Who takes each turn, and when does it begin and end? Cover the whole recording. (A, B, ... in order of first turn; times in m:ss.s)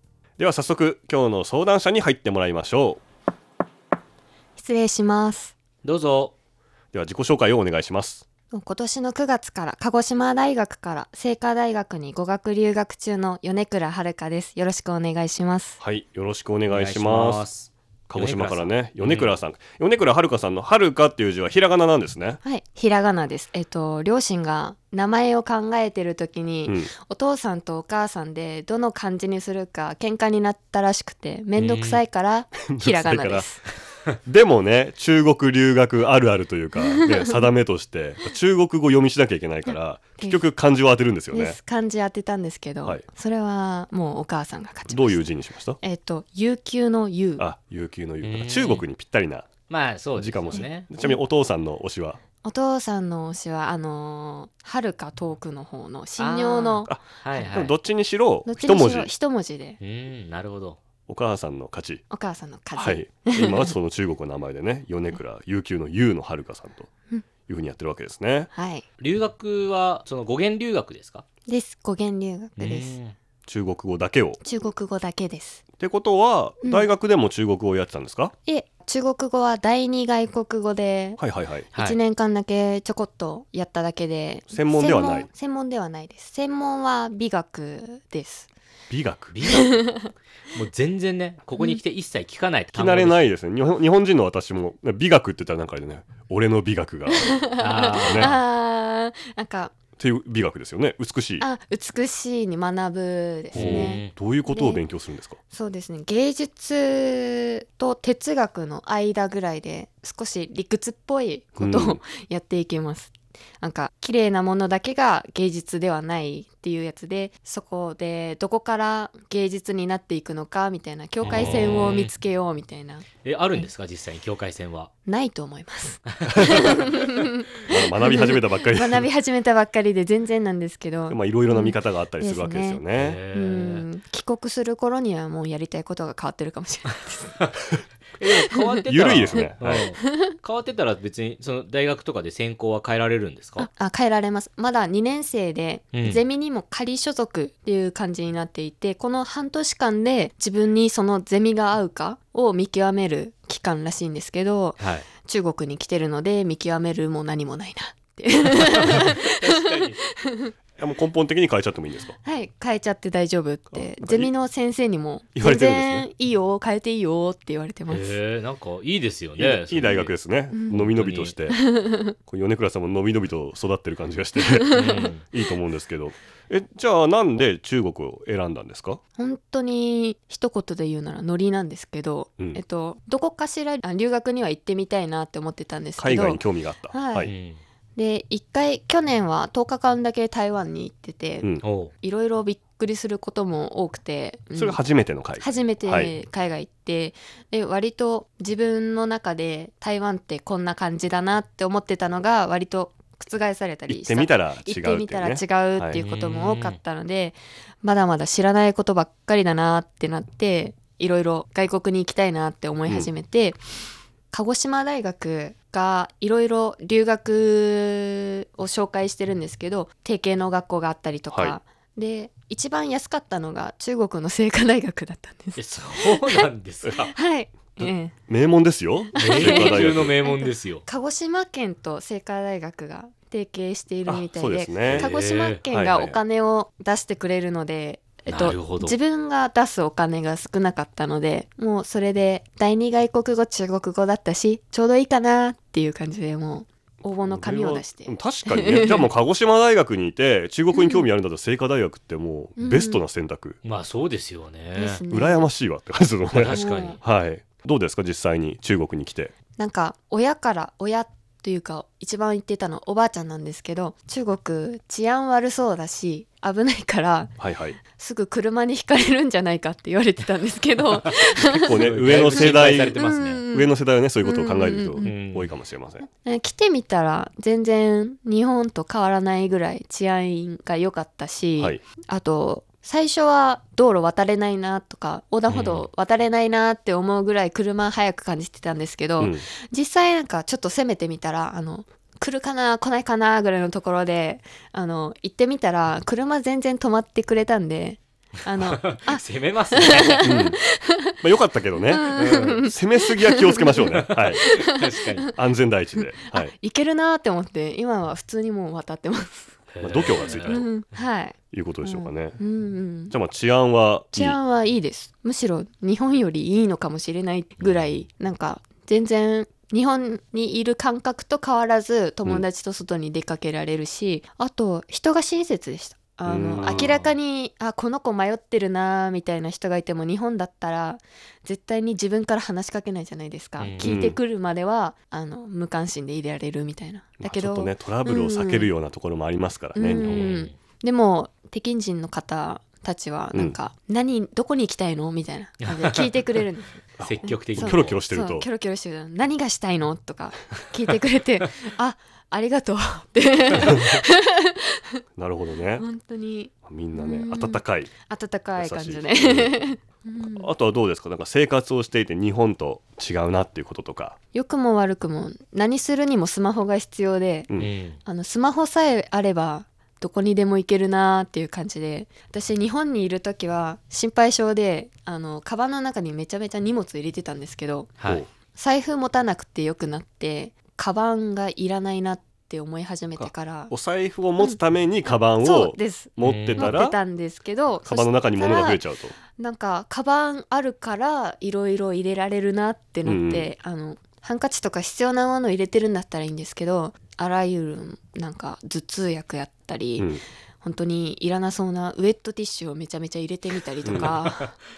0:00.4-0:03.0 A
0:04.6-0:05.5 B
0:05.8-0:06.4 C
0:06.9-0:08.2 A
0:08.5-0:15.8 B
0:15.8-0:17.5 A
0:16.7-0:19.4 C
0:18.1-0:22.4 A
0:22.4-0:33.6 B
0:31.6-0:32.0 C
0:32.7-0:33.5 A
0:34.3-0:41.6 A
0:36.8-0:37.2 B
0:41.3-0:45.2 B
0:44.9-0:45.8 A
0:45.8-0:47.5 B
0:47.4-0:49.6 A
0:48.2-0:48.8 C
0:49.7-0:50.9 C
0:50.2-0:52.2 A
0:50.5-0:51.2 B
0:52.4-0:56.9 B
0:56.2-0:57.7 C
0:56.9-0:59.1 A
0:58.4-0:59.8 B
0:59.8-1:00.8 C
1:01.1-1:02.0 A
1:02.1-1:03.8 B
1:02.8-1:06.9 A
1:07.5-1:08.5 A
1:08.5-1:08.8 B
1:09.0-1:11.2 C
1:11.5-1:13.0 B
1:12.6-1:13.2 C
1:13.5-1:14.4 A
1:14.4-1:15.6 B
1:15.8-1:18.3 A
1:16.6-1:16.9 B
1:18.4-1:21.2 B
1:21.2-1:21.7 A
1:21.7-1:22.0 C
1:21.8-1:28.5 B
1:24.5-1:25.3 A
1:28.9-1:29.5 A
1:29.3-1:33.2 C
1:29.6-1:30.1 B
1:32.7-1:37.4 A
1:37.1-1:39.7 B
1:37.6-1:38.4 C
1:38.1-1:38.4 A
1:40.0-1:41.5 A
1:41.4-1:44.8 B
1:43.5-1:44.1 C
1:43.5-1:45.4 A
1:45.5-2:03.1 B
1:51.6-1:52.0 A
2:01.2-2:02.1 C
2:01.3-2:01.6 A
2:03.2-2:04.9 C
2:05.1-2:12.8 B
2:07.7-2:09.0 A
2:11.1-2:13.2 A
2:13.0-2:13.9 C
2:13.3-2:17.4 B
2:18.2-2:23.7 C
2:18.9-2:19.9 A
2:23.6-2:40.5 B
2:25.9-2:26.2 C
2:34.8-2:35.1 C
2:38.6-2:40.0 C
2:40.8-2:42.2 A
2:42.2-2:48.2 B
2:43.7-2:44.3 A
2:45.4-2:46.1 A
2:47.9-2:50.1 C
2:49.4-2:51.6 A
2:50.5-2:50.9 B
2:50.9-2:51.4 C
2:51.5-2:52.1 B
2:52.3-2:54.8 A
2:54.6-2:55.0 B
2:54.7-2:55.2 C
2:55.3-2:59.0 A
2:59.2-3:07.3 B
3:06.0-3:07.3 A
3:07.2-3:07.6 C
3:08.0-3:11.5 B
3:11.6-3:11.9 C
3:12.0-3:14.8 B
3:14.6-3:16.1 A
3:15.4-3:33.6 B
3:23.9-3:26.0 A
3:25.9-3:26.8 C
3:34.3-3:46.5 B
3:41.3-3:41.6 A
3:45.6-3:47.1 C
3:47.1-3:48.2 B
3:47.8-3:50.2 A
3:49.2-4:09.1 B
3:49.2-3:50.8 C
3:54.1-3:55.1 A
3:54.9-3:55.6 C
3:55.7-3:56.2 A
3:58.3-3:59.0 C
4:07.2-4:13.6 A
4:10.7-4:11.1 B
4:12.6-4:13.0 B
4:13.6-4:15.0 C
4:14.7-4:15.5 B
4:15.1-4:19.3 A
4:16.3-4:17.0 C
4:16.5-4:17.0 B
4:19.6-4:35.1 B
4:27.4-4:27.8 A
4:31.5-4:36.1 A
4:31.5-4:33.4 C
4:35.0-4:35.5 C
4:36.2-5:01.1 B
4:45.5-4:45.9 C
4:49.2-4:49.4 A
4:58.6-5:00.3 C
5:00.2-5:00.6 A
5:01.2-5:04.4 A
5:01.9-5:03.8 B
5:02.1-5:02.6 C
5:04.0-5:05.3 C
5:04.4-5:04.8 B
5:05.3-5:06.5 A
5:06.0-5:09.5 B
5:09.7-5:10.6 C
5:09.8-5:10.7 A
5:10.3-5:13.1 B
5:11.5-5:12.4 A
5:13.1-5:14.4 A
5:14.1-5:38.7 B
5:26.3-5:26.9 A
5:26.6-5:27.1 C
5:33.6-5:34.0 C
5:33.8-5:34.2 A
5:37.2-5:40.2 A
5:39.8-5:54.8 B
5:40.0-5:40.6 C
5:45.6-5:46.0 C
5:47.0-5:48.5 A
5:47.0-5:48.0 C
5:55.2-5:55.8 A
5:55.8-6:00.5 B
5:56.7-5:57.9 A
5:58.6-5:59.6 A
6:00.2-6:04.2 A
6:04.3-6:07.5 B
6:07.6-6:08.0 C
6:08.0-6:17.9 B
6:18.5-6:23.8 B
6:23.2-6:27.0 A
6:24.4-6:28.8 B
6:26.2-6:26.8 C
6:27.9-6:29.2 A
6:29.4-6:40.1 B
6:33.0-6:33.5 A
6:40.6-6:44.6 B
6:43.8-6:44.1 A
6:44.0-6:44.3 C